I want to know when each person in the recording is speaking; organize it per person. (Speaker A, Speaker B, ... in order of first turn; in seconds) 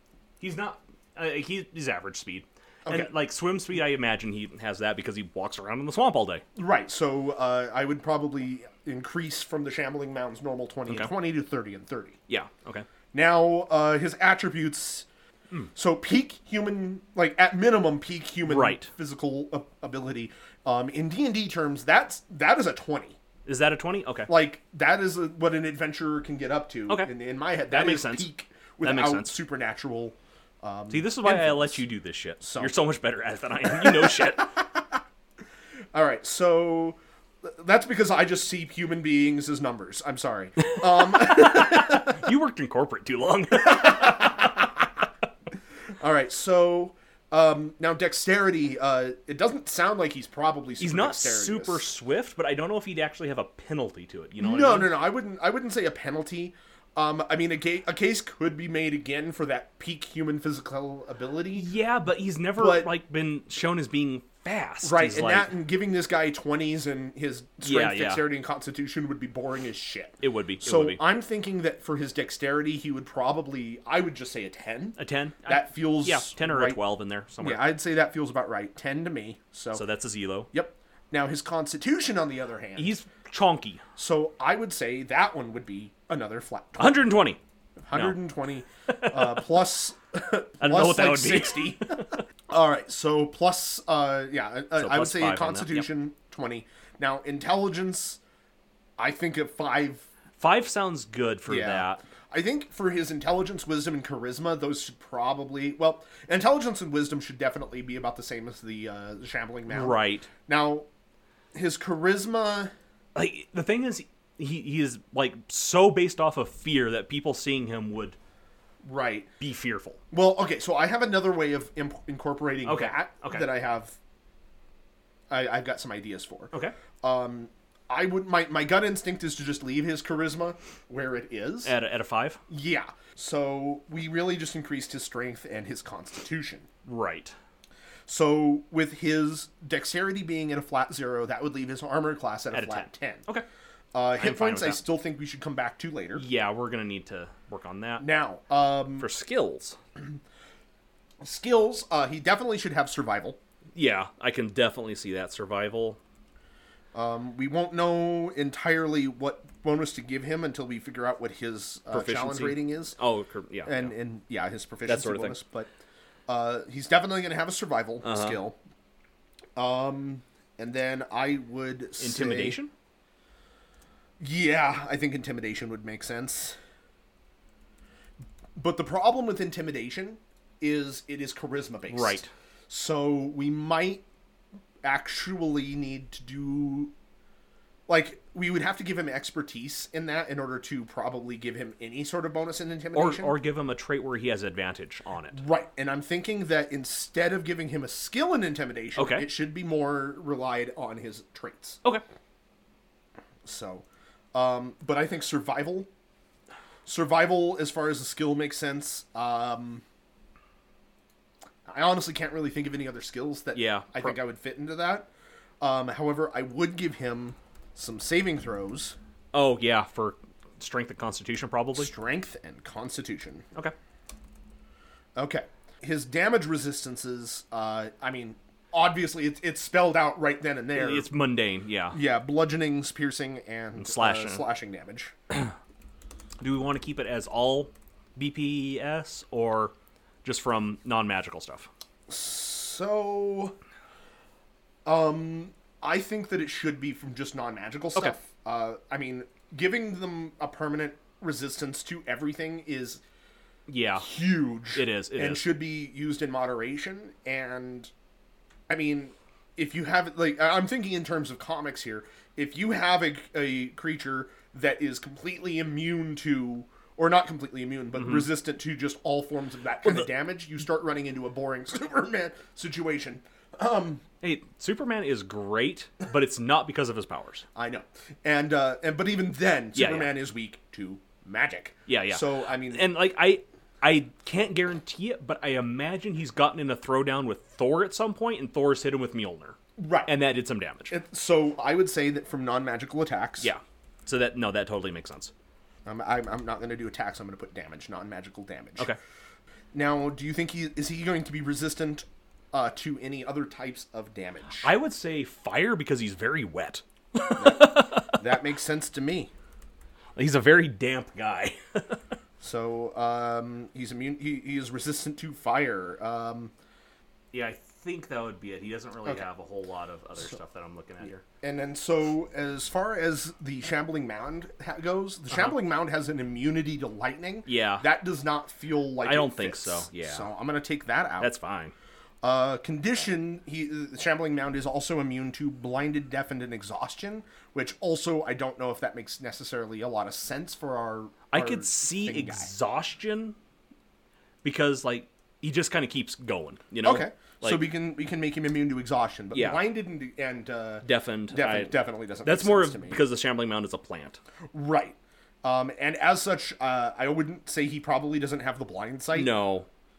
Speaker A: 0.4-6.4, 12.3-12.9, 18.5-18.9, 23.4-24.3, 27.7-28.3, 28.8-29.4, 30.9-34.5, 40.6-44.5, 50.8-54.9, 61.5-65.5, 67.6-68.2, 70.2-71.0, 75.0-77.6, 79.7-80.5, 82.8-83.8, 86.8-87.4, 88.9-89.4, 90.6-92.2, 94.7-95.9, 100.4-102.0, 109.7-110.3, 113.1-118.2, 119.4-120.0, 122.6-123.5, 131.6-132.4, 136.8-137.3, 142.5-143.4, 144.2-144.8, 146.2-148.0, 149.0-149.8, 153.7-156.0, 161.9-163.9, 164.9-165.4, 168.0-168.4, 172.0-172.7, 181.9-182.3, 192.9-195.4, 198.9-199.3, 213.5-214.2, 219.3-221.9, 230.7-232.0, 233.8-234.4, 236.4-241.7, 253.7-254.1, 254.7-255.5, 268.0-268.3, 274.2-277.4, 279.7-280.1, 281.9-290.9, 293.4-295.3, 304.6-308.2, 310.1-312.0, 317.3-321.2, 325.3-325.6, 327.4-327.9, 329.0-330.3, 331.2-331.7, 341.3-343.4, 344.4-347.7, 349.3-349.6, 350.8-354.2, 359.1-359.7
Speaker B: 6.5-12.2, 13.1-15.1, 15.7-23.2, 24.3-31.8, 32.4-32.8, 33.7-34.8, 35.9-42.3, 43.6-44.9, 46.0-51.8, 54.4-61.7, 62.6-62.9, 64.8-76.8, 77.4-79.8, 80.5-82.9, 84.0-87.1, 87.8-98.2, 99.0-100.1, 101.5-110.9, 111.5-112.7, 118.8-119.3, 120.1-124.0, 125.3-131.7, 132.5-136.7, 138.1-143.2, 143.9-146.2, 148.0-149.1, 151.2-153.4, 156.9-163.0, 163.7-165.7, 166.3-168.6, 169.6-172.6, 174.2-176.6, 178.6-184.0, 184.8-186.9, 187.9-193.3, 195.3-201.8, 203.4-205.9, 206.8-209.8, 211.7-215.1, 215.6-219.0, 221.8-223.5, 225.2-231.1, 231.9-235.1, 242.1-243.6, 244.8-253.0, 254.0-257.9, 258.7-274.0, 277.5-282.9, 289.8-290.1, 290.9-293.5, 295.8-298.9, 299.7-304.7, 307.4-309.3, 312.4-316.5, 321.4-331.3, 332.2-342.5, 346.8-353.0, 354.5-359.4